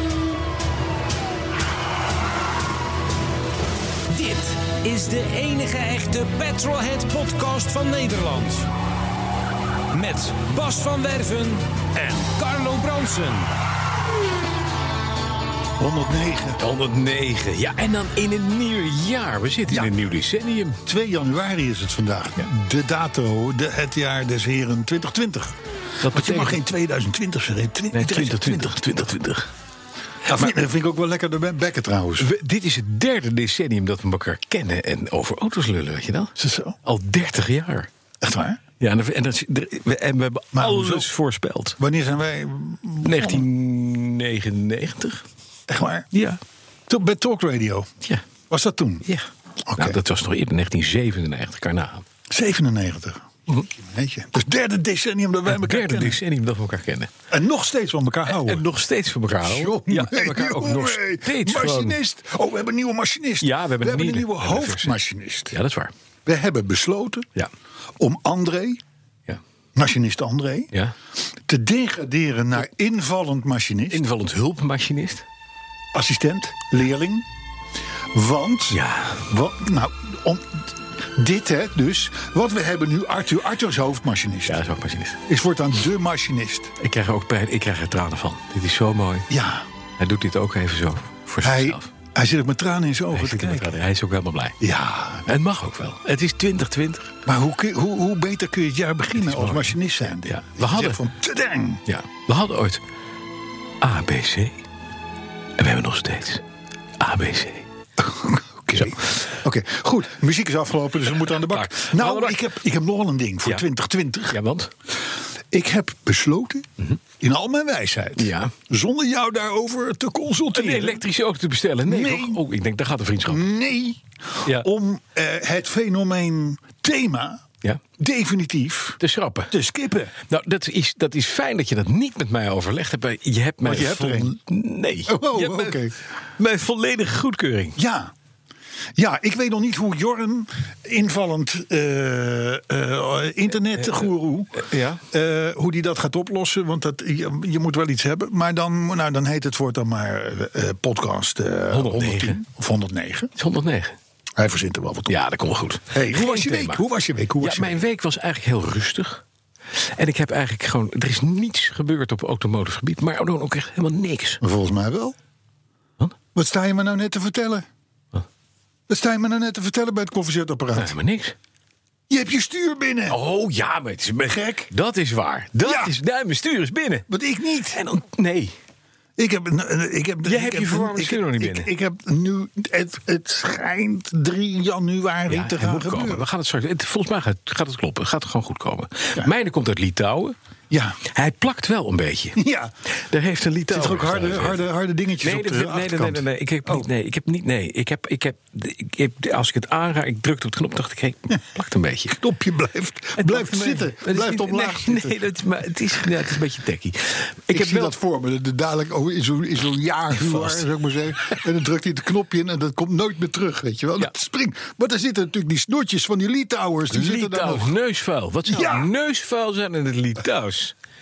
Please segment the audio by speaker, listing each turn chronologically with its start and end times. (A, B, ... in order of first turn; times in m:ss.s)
0:04.1-0:08.7 A
0:09.9-0:13.5 A
0:15.8-0:16.6 B
0:16.6-0:20.8 C
0:19.7-0:19.9 B
0:20.8-0:28.8 B
0:26.0-0:26.6 C
0:27.9-0:29.5 C
0:30.2-0:32.3 B
0:32.2-0:37.9 C
0:36.4-0:36.8 B
0:38.2-0:38.6 B
0:38.8-0:41.8 C
0:40.5-0:41.1 B
0:41.8-0:43.4 B
0:43.0-0:45.2 C
0:45.7-0:46.1 B
0:46.1-0:46.4 C
0:46.9-0:47.9 B
0:48.5-0:49.0 B
0:49.0-0:52.0 C
0:49.7-0:50.0 B
0:52.3-0:56.2 B
0:55.5-0:57.1 C
0:57.3-0:58.6 B
0:58.3-1:02.0 C
0:59.4-1:05.6 B
1:03.4-1:05.0 C
1:05.5-1:05.9 C
1:06.2-1:07.3 B
1:08.0-1:08.8 B
1:09.7-1:10.7 B
1:11.5-1:14.0 B
1:13.9-1:15.2 C
1:15.9-1:17.2 B
1:18.1-1:24.6 B
1:18.7-1:19.2 C
1:24.4-1:25.2 C
1:25.3-1:26.7 B
1:26.8-1:29.3 C
1:29.3-1:29.6 B
1:30.0-1:31.9 C
1:31.4-1:33.7 B
1:33.1-1:34.6 C
1:34.6-1:35.3 B
1:35.2-1:37.1 C
1:37.2-1:41.8 B
1:39.2-1:41.0 C
1:41.9-1:42.8 C
1:43.8-1:44.6 C
1:45.6-1:46.4 C
1:47.0-1:47.7 C
1:48.0-1:54.4 B
1:51.5-1:52.4 C
1:54.3-1:54.7 C
1:55.5-1:56.7 B
1:57.2-2:01.0 B
1:58.2-1:58.5 C
2:00.5-2:03.4 C
2:01.9-2:02.4 B
2:03.2-2:07.4 B
2:08.0-2:10.1 B
2:09.0-2:09.5 C
2:10.3-2:17.8 C
2:13.6-2:14.4 B
2:15.1-2:15.9 B
2:17.8-2:18.1 B
2:19.0-2:33.3 B
2:23.8-2:25.0 C
2:31.7-2:32.4 C
2:33.4-2:33.9 C
2:34.4-2:35.2 B
2:35.1-2:36.8 C
2:35.9-2:37.8 B
2:37.4-2:39.2 C
2:39.7-2:44.4 C
2:44.4-2:45.2 B
2:46.3-2:47.6 B
2:48.9-2:50.9 B
2:50.7-2:51.4 C
2:52.1-2:53.2 B
2:53.1-2:57.0 C
2:54.2-2:54.7 B
2:55.6-2:56.0 B
2:57.1-2:57.8 B
2:57.7-2:58.5 C
2:59.2-3:06.2 B
3:00.2-3:01.7 C
3:05.3-3:10.3 C
3:10.7-3:11.0 B
3:11.0-3:14.6 C
3:12.4-3:12.7 B
3:13.7-3:16.8 B
3:15.2-3:22.2 C
3:22.1-3:25.2 B
3:23.2-3:27.9 C
3:27.5-3:37.7 B
3:30.2-3:30.7 C
3:36.9-3:40.7 C
3:38.5-3:38.9 B